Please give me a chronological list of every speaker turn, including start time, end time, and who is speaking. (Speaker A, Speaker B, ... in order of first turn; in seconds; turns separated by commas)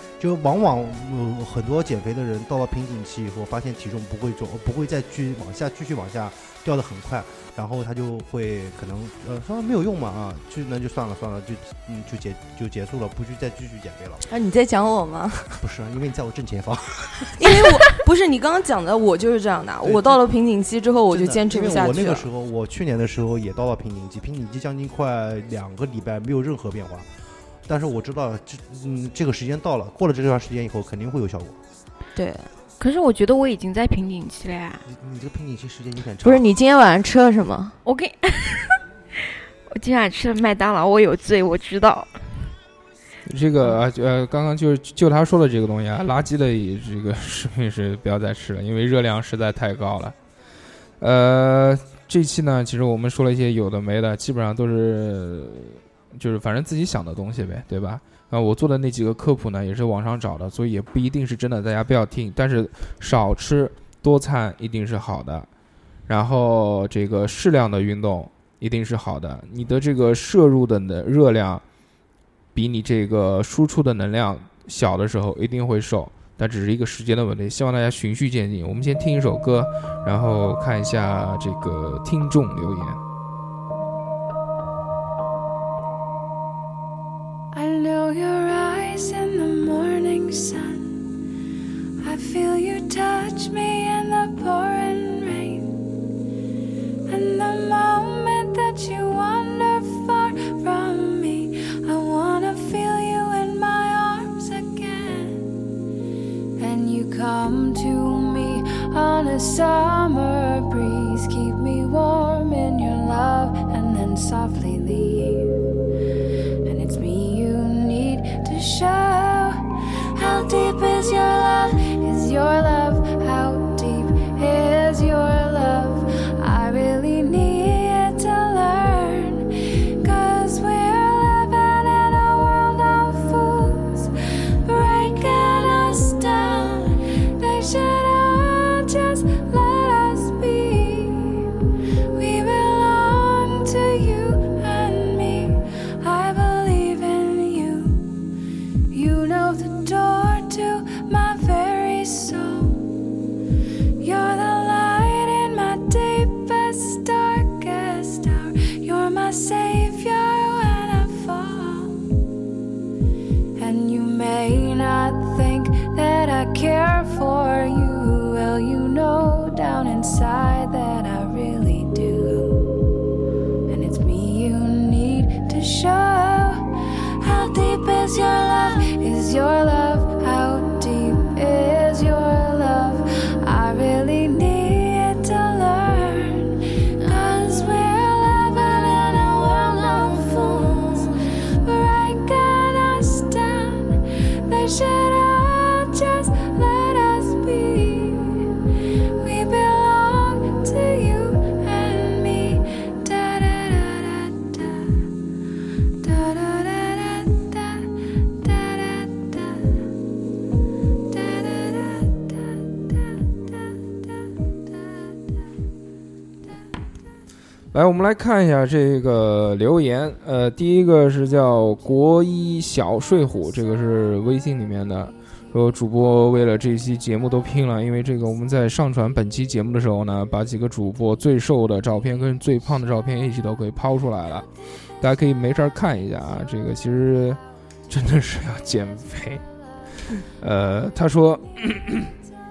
Speaker A: 0.2-14.2, Speaker B: 14.3-15.6, Speaker A: 15.6-17.6, Speaker B: 17.3-22.2, Speaker A: 19.8-20.2, Speaker A: 21.1-27.1, Speaker A: 27.6-31.6, Speaker B: 32.1-32.5, Speaker C: 32.8-34.8, Speaker A: 34.9-36.5, Speaker B: 36.2-37.7, Speaker C: 37.8-42.5, Speaker D: 43.2-50.1, Speaker D: 51.0-65.5, Speaker D: 66.1-71.6, Speaker D: 72.5-83.0, Speaker E: 87.5-91.1, Speaker E: 92.0-95.8, Speaker E: 97.1-105.5, Speaker E: 106.6-115.5, Speaker E: 116.6-141.5, Speaker E: 142.1-148.2, Speaker E: 148.9-152.9, Speaker E: 154.0-162.1, Speaker E: 163.6-172.8, Speaker E: 173.7-198.5, Speaker E: 199.2-205.1, Speaker E: 206.0-209.8, Speaker E: 211.1-213.8, Speaker D: 217.7-234.5, Speaker D: 235.0-239.4, Speaker D: 240.4-242.1